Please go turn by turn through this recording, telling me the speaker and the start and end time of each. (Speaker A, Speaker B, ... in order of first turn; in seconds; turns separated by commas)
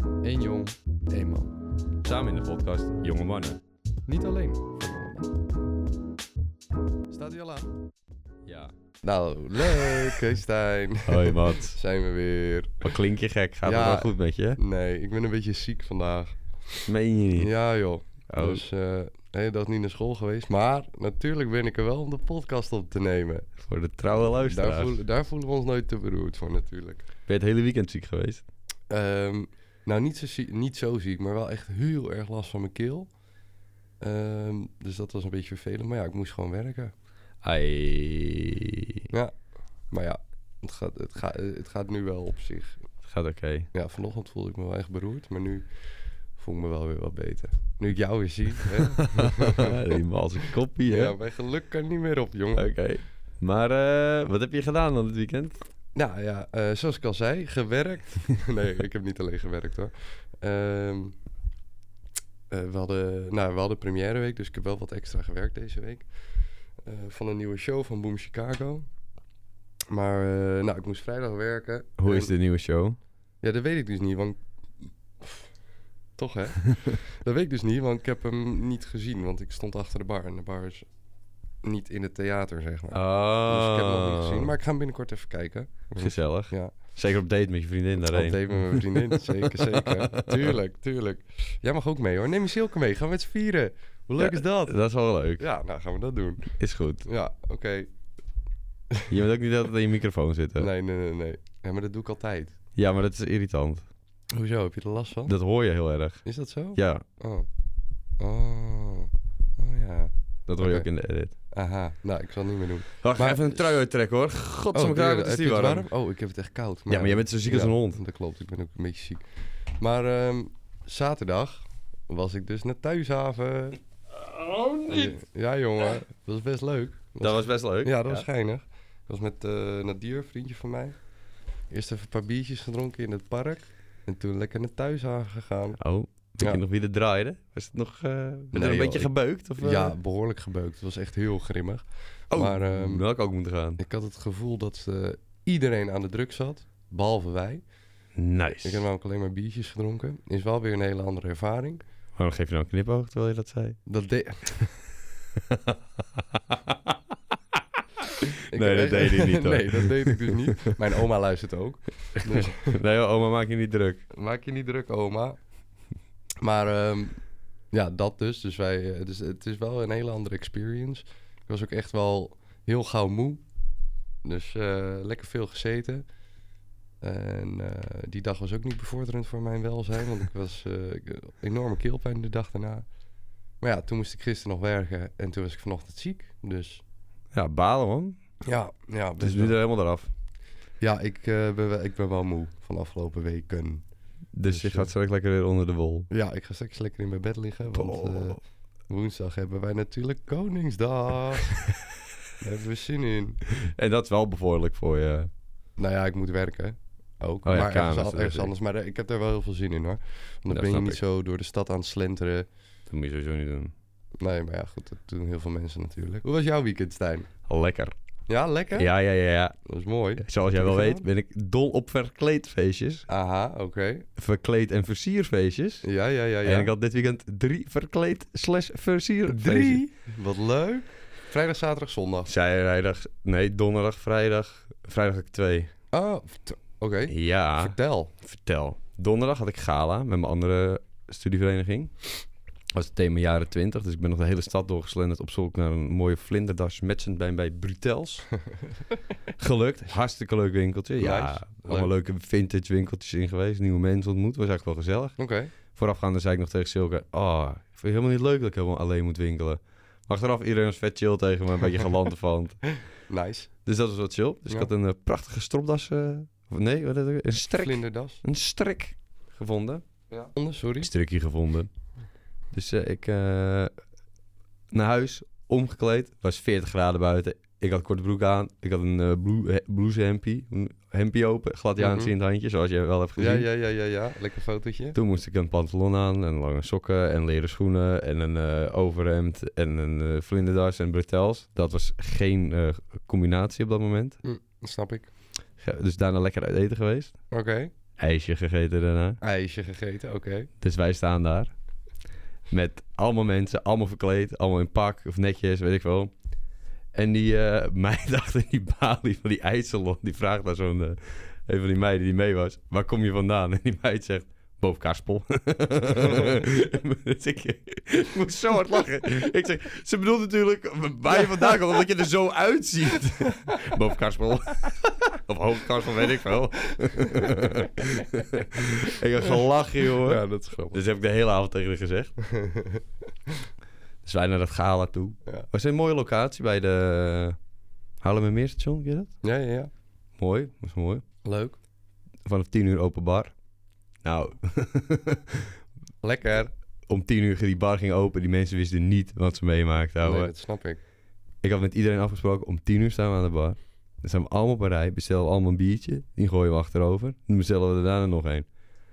Speaker A: 0.2-1.5, Speaker B: 2.0-3.6, Speaker A: 4.1-5.2, Speaker A: 7.1-7.7, Speaker B: 8.5-8.7, Speaker A: 9.0-12.9, Speaker B: 11.1-11.8, Speaker B: 12.8-14.6, Speaker A: 13.6-16.8, Speaker B: 16.9-17.5, Speaker A: 17.4-23.5, Speaker B: 18.3-18.6, Speaker B: 23.6-25.0, Speaker A: 24.4-27.1, Speaker B: 27.3-28.4, Speaker A: 28.9-33.1, Speaker A: 34.0-36.9, Speaker B: 37.4-39.1, Speaker A: 39.1-39.4, Speaker A: 39.9-42.8, Speaker B: 43.0-43.7, Speaker A: 43.7-45.7, Speaker A: 46.4-49.8, Speaker B: 49.0-51.1, Speaker A: 50.9-52.7, Speaker B: 52.5-55.6, Speaker A: 56.0-61.1, Speaker A: 62.5-66.1, Speaker A: 66.8-68.9, Speaker A: 69.9-72.3, Speaker B: 72.0-73.0, Speaker A: 73.4-74.4, Speaker A: 75.2-75.5, Speaker A: 76.2-80.9, Speaker A: 81.6-86.7, Speaker B: 82.9-84.5, Speaker B: 86.0-90.5, Speaker A: 88.0-94.8, Speaker B: 94.2-95.5, Speaker A: 95.4-96.5, Speaker B: 96.6-97.1, Speaker A: 97.0-97.9, Speaker B: 99.1-100.7, Speaker A: 100.6-102.6, Speaker B: 102.8-103.9, Speaker A: 104.3-105.3, Speaker B: 105.3-106.2, Speaker A: 106.2-107.5, Speaker B: 106.8-107.0, Speaker A: 108.2-110.9, Speaker B: 110.5-111.3, Speaker A: 111.5-113.7, Speaker B: 113.0-115.9, Speaker A: 114.7-123.8, Speaker B: 116.9-118.0, Speaker B: 124.2-125.2, Speaker A: 124.9-131.0, Speaker B: 127.2-128.3, Speaker A: 131.7-135.8, Speaker B: 135.8-139.9, Speaker A: 138.5-143.1, Speaker B: 142.3-143.8, Speaker A: 143.8-147.6, Speaker B: 148.2-148.9, Speaker A: 148.6-151.8, Speaker B: 152.2-153.8, Speaker A: 153.9-154.7, Speaker B: 155.4-157.0, Speaker B: 158.0-160.8, Speaker A: 158.5-162.8, Speaker B: 162.2-164.0, Speaker A: 164.1-165.4, Speaker A: 166.4-167.2, Speaker A: 167.7-173.4, Speaker A: 174.2-176.1, Speaker A: 177.0-182.9, Speaker A: 183.6-186.8, Speaker B: 187.3-188.2, Speaker A: 188.4-189.6, Speaker B: 189.2-190.1, Speaker A: 190.8-193.8, Speaker B: 194.3-196.1, Speaker A: 194.5-194.9, Speaker A: 196.1-198.4, Speaker B: 197.7-198.4, Speaker A: 198.9-201.6, Speaker A: 202.4-203.4, Speaker B: 203.6-205.3, Speaker A: 205.8-212.5, Speaker B: 207.5-208.5, Speaker B: 210.5-211.0, Speaker B: 212.9-213.7, Speaker A: 214.2-217.3, Speaker B: 217.5-217.9, Speaker A: 218.3-218.9, Speaker B: 218.8-219.6, Speaker A: 219.7-221.0, Speaker B: 220.2-223.1, Speaker A: 223.1-224.1, Speaker B: 224.2-225.9, Speaker A: 225.8-226.7, Speaker B: 226.4-229.9, Speaker A: 229.3-232.3, Speaker B: 232.3-235.7, Speaker A: 235.9-238.1, Speaker B: 237.1-241.9, Speaker B: 242.7-248.3, Speaker B: 249.4-255.2, Speaker A: 251.0-251.9, Speaker A: 255.2-255.5, Speaker B: 255.7-262.7, Speaker A: 263.1-263.5, Speaker B: 263.6-269.8, Speaker A: 267.6-268.2, Speaker A: 270.1-270.9, Speaker B: 270.8-271.7, Speaker B: 272.5-273.7, Speaker B: 274.7-283.5, Speaker A: 281.8-282.1, Speaker A: 283.2-285.0, Speaker B: 284.9-294.2, Speaker A: 294.2-295.1, Speaker B: 295.6-297.1, Speaker A: 297.3-297.7, Speaker B: 298.0-299.2, Speaker A: 299.2-300.5, Speaker B: 300.6-301.5, Speaker B: 302.5-306.1, Speaker B: 306.9-332.2, Speaker A: 329.2-330.8, Speaker A: 332.3-332.8, Speaker B: 334.0-337.4, Speaker B: 338.0-339.1, Speaker A: 339.2-339.7, Speaker B: 340.2-341.0, Speaker A: 341.2-341.6, Speaker B: 342.3-343.4, Speaker B: 344.0-345.5, Speaker A: 346.0-346.5, Speaker B: 346.9-350.3, Speaker A: 350.0-350.8, Speaker B: 351.4-358.5